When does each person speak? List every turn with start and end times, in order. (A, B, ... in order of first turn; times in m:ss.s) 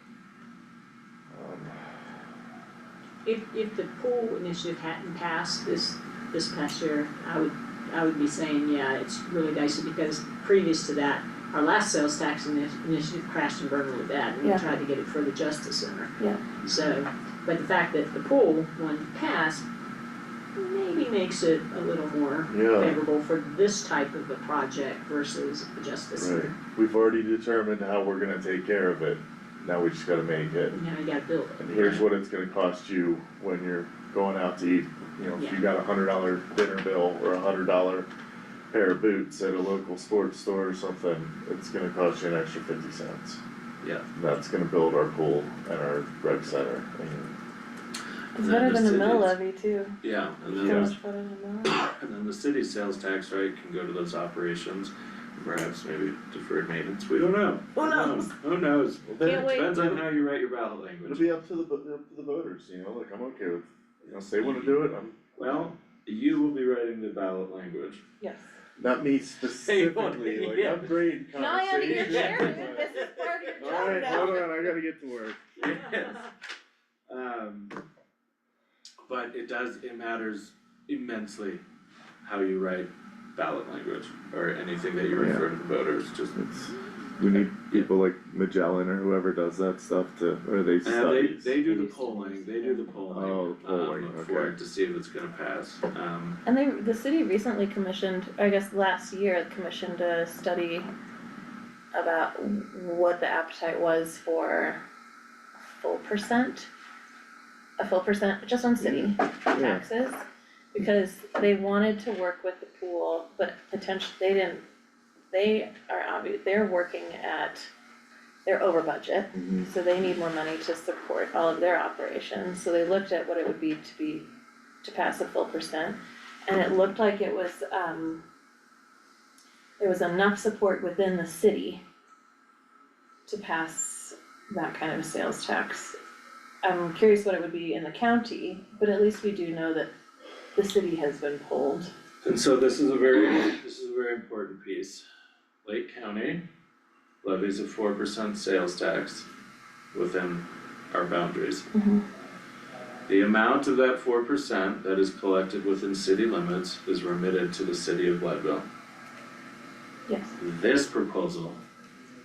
0:01.3-0:01.8 A
0:03.2-0:19.6 B
0:20.6-0:26.5 B
0:22.5-0:23.0 A
0:26.2-0:30.8 A
0:30.7-0:32.0 B
0:31.6-0:38.1 A
0:38.7-0:43.4 A
0:44.1-0:47.3 A
0:48.4-0:49.4 C
0:48.4-0:50.0 D
0:50.0-0:50.9 C
0:50.5-0:50.9 A
0:50.5-0:51.8 D
0:52.0-1:01.2 C
0:59.1-1:00.0 A
0:59.2-0:59.8 D
1:01.0-1:05.2 A
1:04.4-1:04.8 C
1:05.4-1:08.0 C
1:08.2-1:08.6 D
1:08.8-1:13.0 A
1:09.6-1:11.2 C
1:11.3-1:14.4 D
1:11.8-1:14.4 C
1:13.6-1:15.4 A
1:15.6-1:16.3 C
1:17.1-1:17.8 C
1:19.0-1:21.6 C
1:22.2-1:26.3 C
1:25.2-1:25.5 A
1:26.3-1:31.6 A
1:27.3-1:27.9 C
1:30.8-1:36.4 C
1:31.7-1:32.8 B
1:31.8-1:32.7 D
1:33.1-1:34.5 A
1:36.4-1:40.9 D
1:41.9-1:44.8 D
1:45.8-1:46.7 D
1:47.8-1:50.2 D
1:48.8-1:49.8 A
1:50.7-1:54.6 D
1:55.3-1:57.7 D
1:58.4-2:04.3 D
1:59.3-1:59.7 A
2:04.8-2:08.2 D
2:09.8-2:11.8 D
2:13.2-2:16.0 D
2:16.6-2:19.9 D
2:20.5-2:21.9 D
2:22.2-2:25.0 C
2:25.6-2:26.4 C
2:27.2-2:29.3 C
2:29.9-2:31.7 C
2:31.7-2:32.0 D
2:33.1-2:38.6 C
2:40.1-2:40.3 D
2:40.4-2:41.6 C